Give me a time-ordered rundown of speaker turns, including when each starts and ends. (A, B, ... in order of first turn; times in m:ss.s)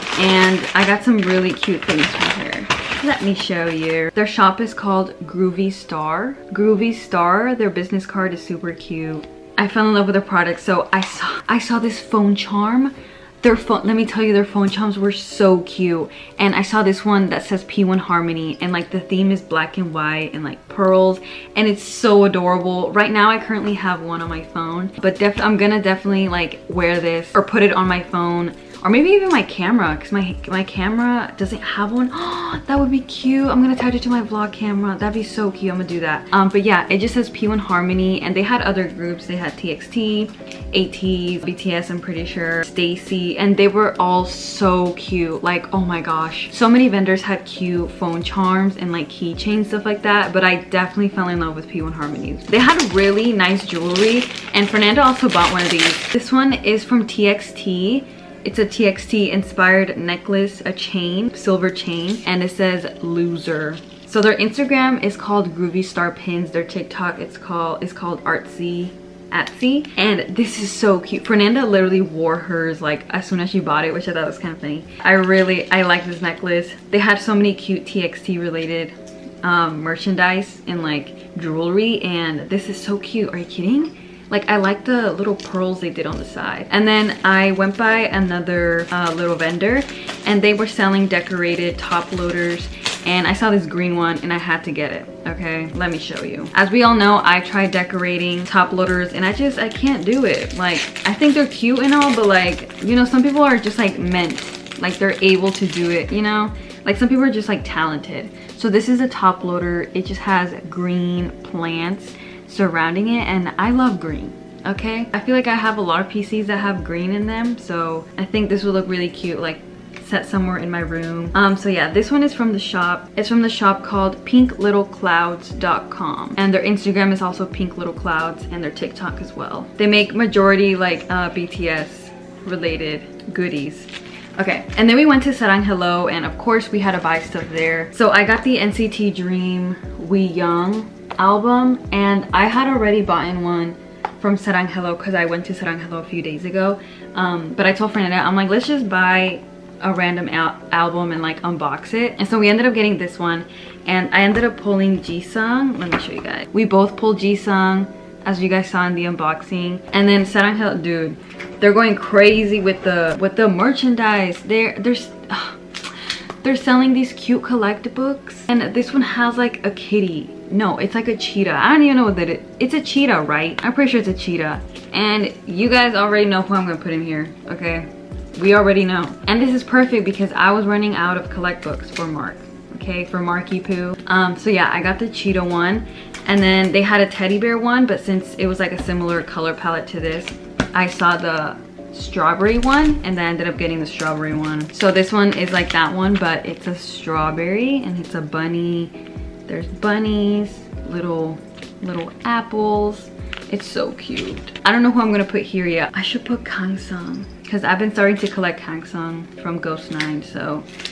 0:00.2-2:45.6 A
2:46.4-3:18.9 A
3:19.5-3:30.7 A